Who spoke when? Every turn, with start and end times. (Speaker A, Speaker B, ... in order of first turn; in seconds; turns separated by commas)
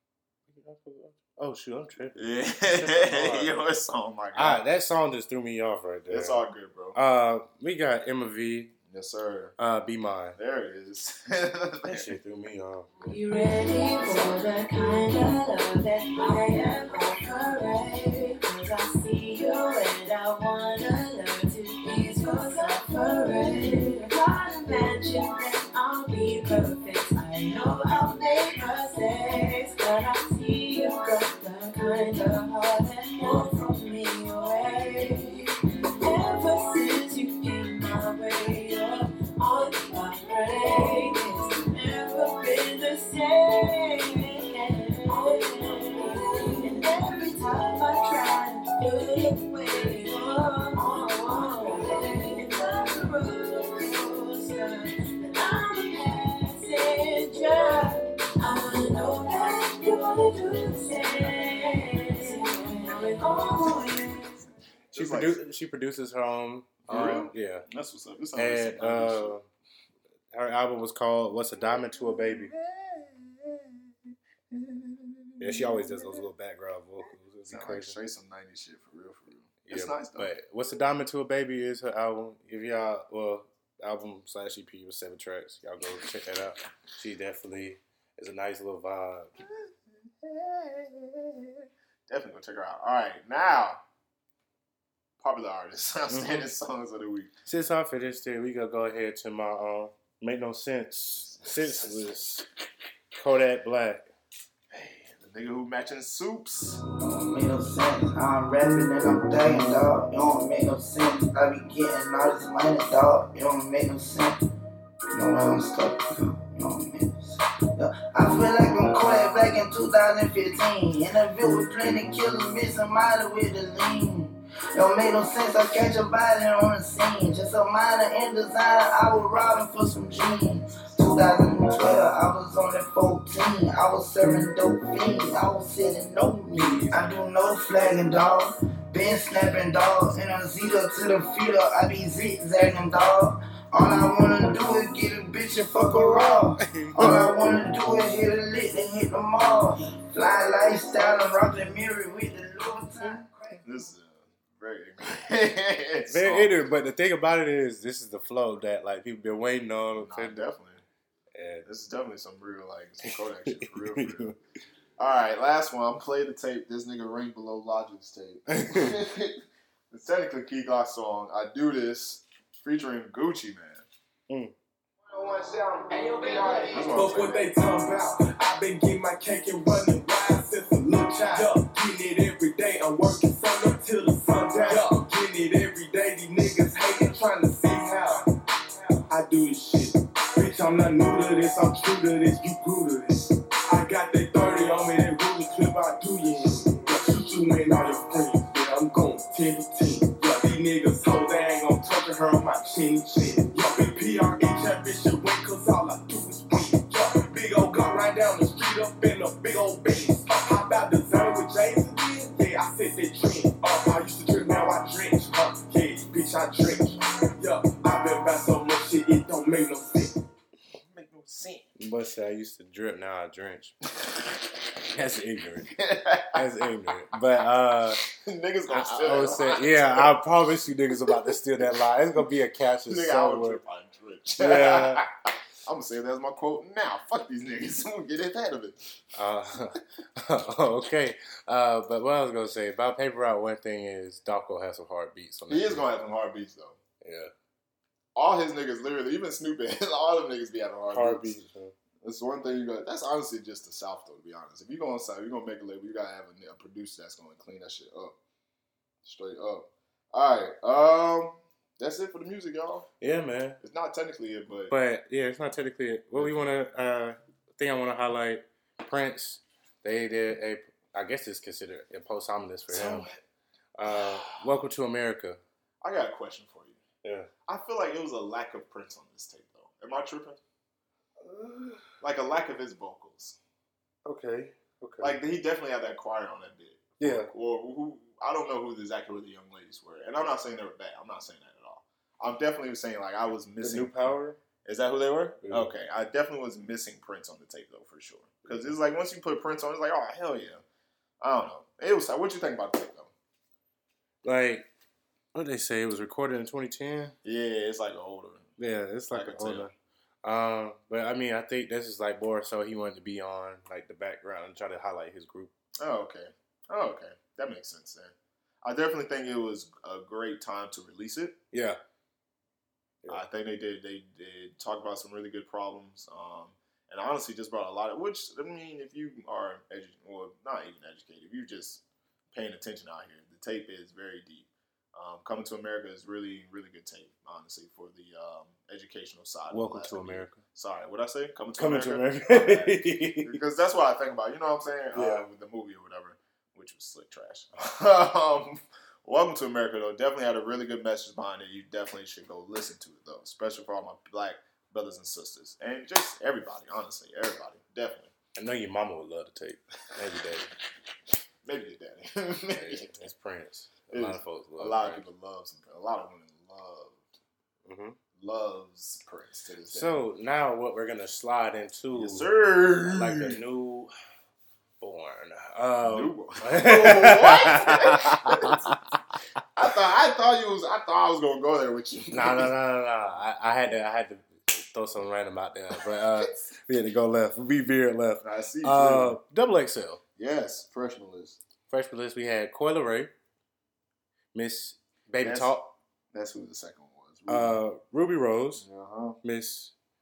Speaker A: 0.5-3.6, Speaker B: 2.1-4.6, Speaker A: 4.3-6.4, Speaker B: 6.1-7.0, Speaker A: 6.9-8.7, Speaker B: 8.9-9.5, Speaker A: 9.6-10.4, Speaker B: 10.3-12.1, Speaker A: 11.8-13.1, Speaker C: 13.1-64.3, Speaker B: 64.9-65.4, Speaker A: 64.9-67.7, Speaker B: 66.9-69.3, Speaker A: 68.3-69.5, Speaker A: 70.3-72.5, Speaker B: 71.6-73.8, Speaker B: 74.5-76.3, Speaker A: 75.4-78.0, Speaker B: 77.5-80.3, Speaker A: 79.7-89.3, Speaker B: 89.4-93.8, Speaker B: 95.2-97.3, Speaker A: 96.1-96.5, Speaker A: 97.5-102.5, Speaker B: 101.2-102.1, Speaker A: 103.1-104.0, Speaker B: 104.7-106.8, Speaker D: 106.9-114.4, Speaker D: 115.1-153.6, Speaker A: 145.9-147.2, Speaker B: 153.6-156.5, Speaker A: 156.1-160.5, Speaker B: 159.9-160.8, Speaker A: 161.3-161.7, Speaker B: 161.6-164.3, Speaker A: 163.1-164.3, Speaker B: 165.0-173.8, Speaker A: 168.5-169.0, Speaker D: 175.1-176.9, Speaker E: 176.3-188.2, Speaker B: 176.7-177.5, Speaker E: 189.1-220.2, Speaker B: 220.7-221.7, Speaker A: 221.8-223.7, Speaker A: 224.9-225.7, Speaker B: 225.7-226.5, Speaker A: 226.3-228.0, Speaker B: 228.1-230.2, Speaker A: 228.7-233.6, Speaker B: 230.9-231.8, Speaker B: 232.8-239.0, Speaker A: 234.4-235.0, Speaker A: 239.1-245.8, Speaker B: 245.5-246.8, Speaker A: 247.0-247.3, Speaker B: 248.1-251.3, Speaker A: 250.9-251.7, Speaker B: 252.0-258.1, Speaker B: 259.0-262.9, Speaker A: 263.0-263.6, Speaker B: 263.6-264.7, Speaker A: 264.7-273.1, Speaker B: 266.1-266.4, Speaker B: 272.7-273.2, Speaker A: 273.8-275.4, Speaker B: 273.9-274.4, Speaker B: 275.8-276.8, Speaker A: 277.0-277.3, Speaker B: 277.4-280.4, Speaker A: 281.3-281.8, Speaker B: 281.9-283.4, Speaker A: 284.0-285.2, Speaker B: 285.0-294.1, Speaker A: 287.0-287.3, Speaker A: 293.6-294.4, Speaker B: 294.6-300.6, Speaker A: 295.4-295.7, Speaker A: 298.4-298.7, Speaker B: 301.2-303.1, Speaker A: 304.2-304.7, Speaker A: 305.3-307.1, Speaker B: 307.2-308.5, Speaker A: 308.6-309.7, Speaker B: 309.1-309.7, Speaker A: 310.2-315.5, Speaker B: 315.8-321.4, Speaker A: 321.5-321.8, Speaker B: 323.1-331.8, Speaker B: 332.3-358.1, Speaker A: 339.5-340.4, Speaker A: 341.6-343.4, Speaker A: 344.9-345.3, Speaker A: 358.4-360.5, Speaker B: 361.4-363.1, Speaker A: 362.5-365.0, Speaker B: 363.9-367.0, Speaker A: 367.6-368.0, Speaker B: 368.2-370.0, Speaker A: 369.7-372.3, Speaker B: 371.9-373.4, Speaker A: 372.8-373.9, Speaker A: 374.8-378.7, Speaker B: 375.8-378.7, Speaker B: 379.5-382.5, Speaker A: 382.1-390.0, Speaker B: 388.2-389.2, Speaker B: 390.2-391.4, Speaker A: 391.7-393.1, Speaker A: 394.3-395.7, Speaker B: 395.2-397.6, Speaker A: 397.3-398.6, Speaker B: 398.6-399.2, Speaker A: 399.2-399.7